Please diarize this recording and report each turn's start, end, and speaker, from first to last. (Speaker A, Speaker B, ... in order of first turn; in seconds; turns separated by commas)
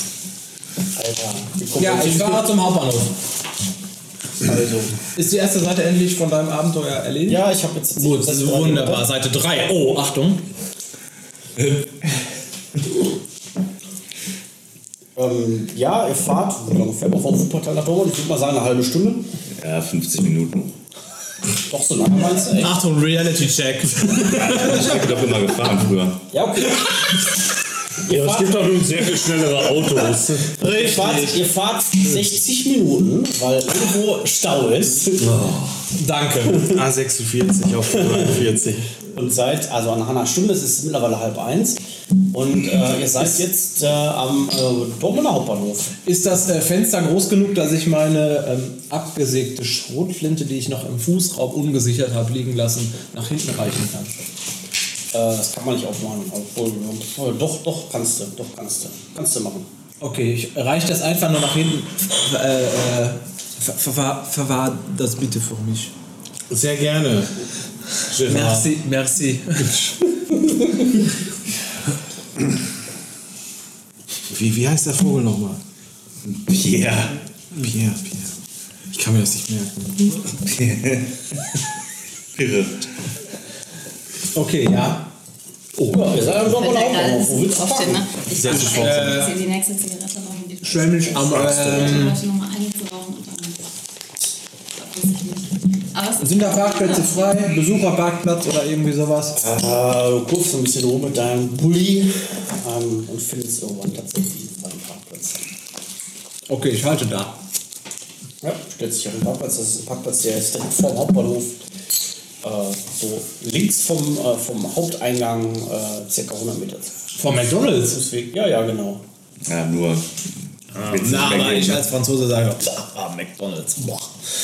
Speaker A: 0.9-2.6, Speaker B: 1.8-3.1, Speaker A: 4.4-4.9, Speaker B: 5.1-10.4, Speaker A: 7.2-9.1, Speaker C: 11.6-11.9, Speaker A: 15.2-19.3, Speaker C: 19.6-20.7, Speaker A: 21.7-22.8, Speaker B: 22.6-25.0, Speaker C: 24.4-26.2, Speaker A: 26.3-27.2, Speaker A: 28.0-28.9, Speaker D: 28.0-30.5, Speaker A: 30.5-35.2, Speaker B: 30.6-31.4, Speaker D: 35.2-35.8, Speaker B: 35.9-36.7, Speaker E: 36.7-38.9, Speaker A: 39.1-41.8, Speaker A: 42.3-45.9, Speaker B: 46.0-54.1, Speaker A: 55.1-59.7, Speaker B: 60.0-65.9, Speaker E: 66.5-67.3, Speaker E: 68.1-68.7, Speaker B: 68.2-69.8, Speaker E: 69.6-69.9, Speaker E: 74.3-75.6, Speaker C: 76.3-77.2, Speaker E: 77.5-78.3, Speaker E: 78.9-79.9, Speaker C: 80.4-81.1, Speaker C: 82.3-82.8, Speaker B: 84.3-85.1, Speaker A: 85.8-89.0, Speaker F: 86.4-93.7, Speaker B: 88.5-89.4, Speaker B: 90.6-92.2, Speaker A: 91.1-92.1, Speaker F: 94.8-97.5, Speaker B: 96.2-99.4, Speaker A: 99.3-105.4, Speaker B: 106.5-107.4, Speaker A: 108.4-111.6, Speaker A: 112.4-116.9, Speaker B: 117.2-118.0, Speaker A: 117.7-119.0, Speaker C: 119.5-120.0, Speaker B: 120.8-124.1, Speaker C: 120.8-121.8